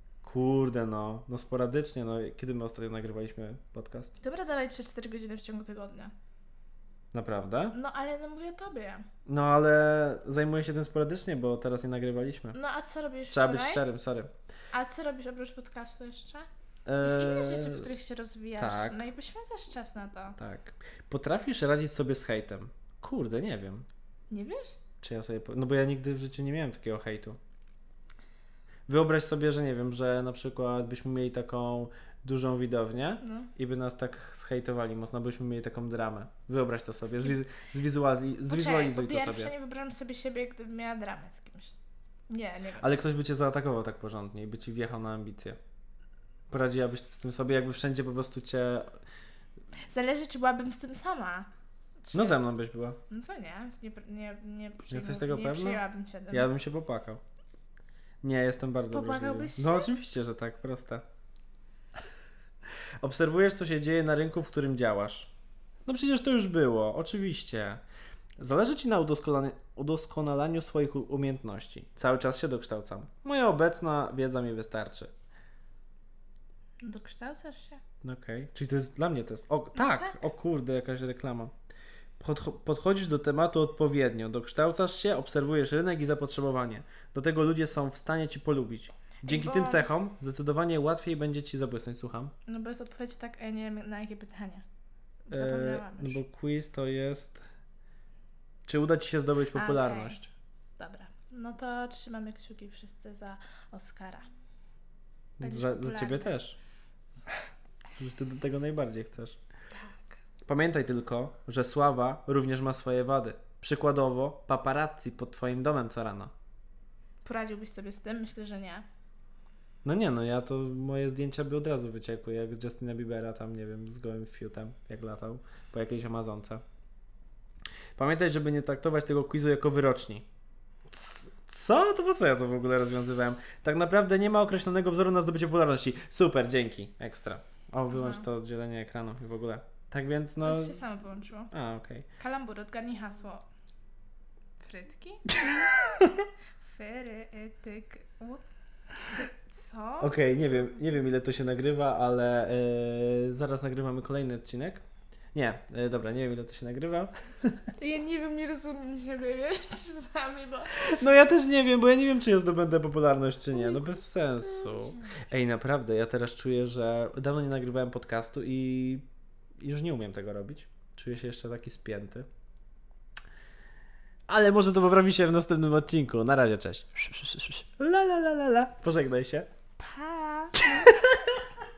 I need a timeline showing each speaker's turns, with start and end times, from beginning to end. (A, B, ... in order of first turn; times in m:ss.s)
0:00.2-0:04.1 A
0:04.2-0:06.1 B
0:07.1-0:07.7 A
0:07.7-0:09.0 B
0:09.2-0:12.6 A
0:12.5-0:13.8 B
0:13.3-0:14.3 A
0:14.7-0:16.5 B
0:16.8-0:17.9 A
0:17.0-0:20.4 B
0:18.6-0:19.0 A
0:20.4-0:23.8 A
0:24.3-0:24.8 B
0:25.0-0:27.4 A
0:28.9-0:39.5 A
0:33.2-0:33.5 B
0:37.1-0:37.4 B
0:38.5-0:41.7 B
0:42.3-0:42.9 B
0:42.8-0:45.6 A
0:46.5-0:49.0 A
0:49.9-0:51.5 B
0:52.0-0:52.4 B
0:52.1-0:53.0 A
0:53.1-0:56.5 B
0:54.9-0:57.2 A
0:58.2-1:01.0 A
0:58.9-0:59.9 B
1:03.0-1:05.3 A
1:05.8-1:07.8 A
1:08.4-1:15.1 A
1:16.8-1:17.8 B
1:18.0-1:21.5 A
1:19.7-1:20.3 B
1:22.2-1:32.3 A
1:29.2-1:29.9 B
1:32.5-1:34.6 B
1:35.3-1:36.2 B
1:35.3-1:37.4 A
1:38.6-1:40.3 A
1:39.5-1:40.2 B
1:40.8-1:44.3 B
1:45.4-1:46.6 A
1:45.4-1:46.3 B
1:48.0-1:49.4 A
1:49.7-1:50.2 B
1:50.4-1:56.3 A
1:57.2-1:58.8 B
1:59.8-2:06.6 A
2:08.0-2:10.2 A
2:10.9-2:20.8 A
2:17.9-2:18.2 B
2:20.4-2:21.5 B
2:21.5-2:22.1 A
2:22.2-2:23.4 B
2:24.6-2:25.5 B
2:25.3-2:26.3 A
2:26.6-2:28.4 B
2:29.0-2:30.2 B
2:30.0-2:34.8 A
2:35.3-2:37.7 A
2:37.8-2:40.9 B
2:40.7-2:49.0 A
2:43.5-2:45.3 B
2:49.6-2:52.3 A
2:54.3-2:59.5 A
2:59.8-3:01.0 B
3:00.6-3:01.4 A